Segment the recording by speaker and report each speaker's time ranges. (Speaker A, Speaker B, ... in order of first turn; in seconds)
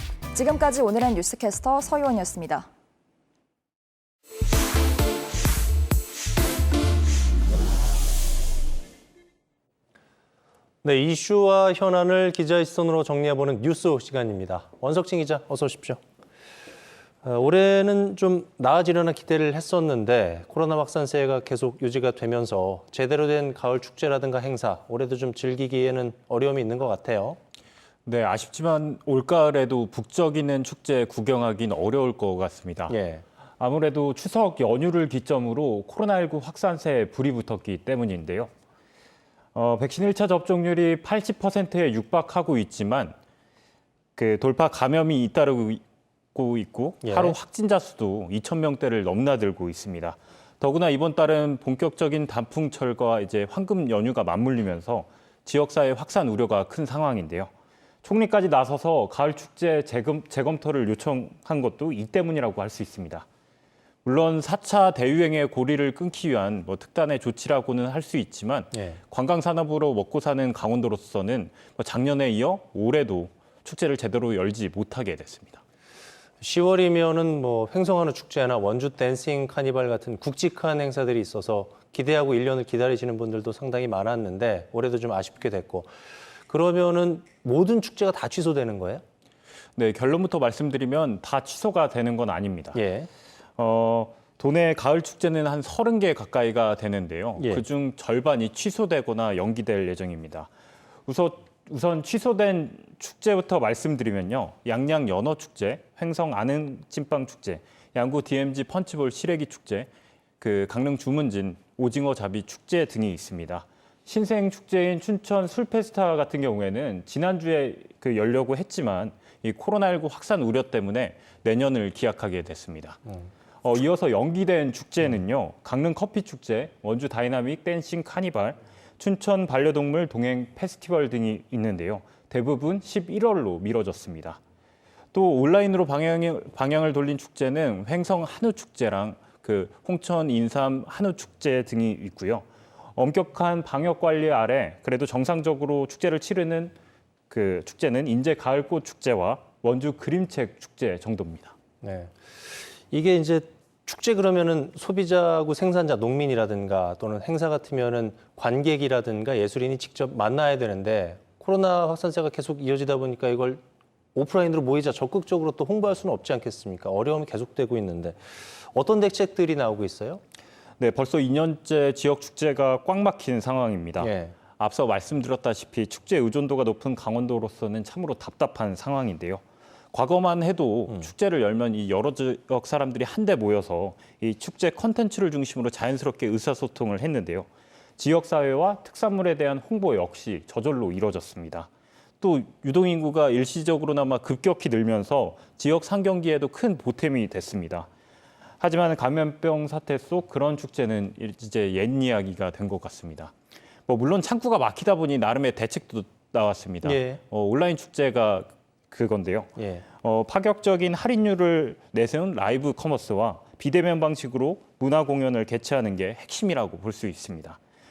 Speaker A: 0.3-2.7
Speaker B: 10.8-16.0, 17.2-27.4, 32.9-33.2, 47.0-47.4, 68.7-69.0, 76.4-89.0, 92.7-93.1, 97.4-97.6, 151.8-163.6, 164.2-170.2, 174.0-174.3, 206.8-207.2, 209.6-209.8
Speaker C: 28.1-32.9, 33.6-38.5, 39.5-43.1, 44.2-45.8, 46.4-57.5, 58.0-63.3, 64.0-75.6, 89.8-92.8, 93.6-100.5, 101.1-109.9, 110.4-123.0, 123.6-134.4, 135.1-142.4, 143.0-146.7, 147.3-151.6, 170.8-179.4, 179.9-187.5, 188.0-191.7, 192.2-197.9, 198.6-203.3, 203.9-217.6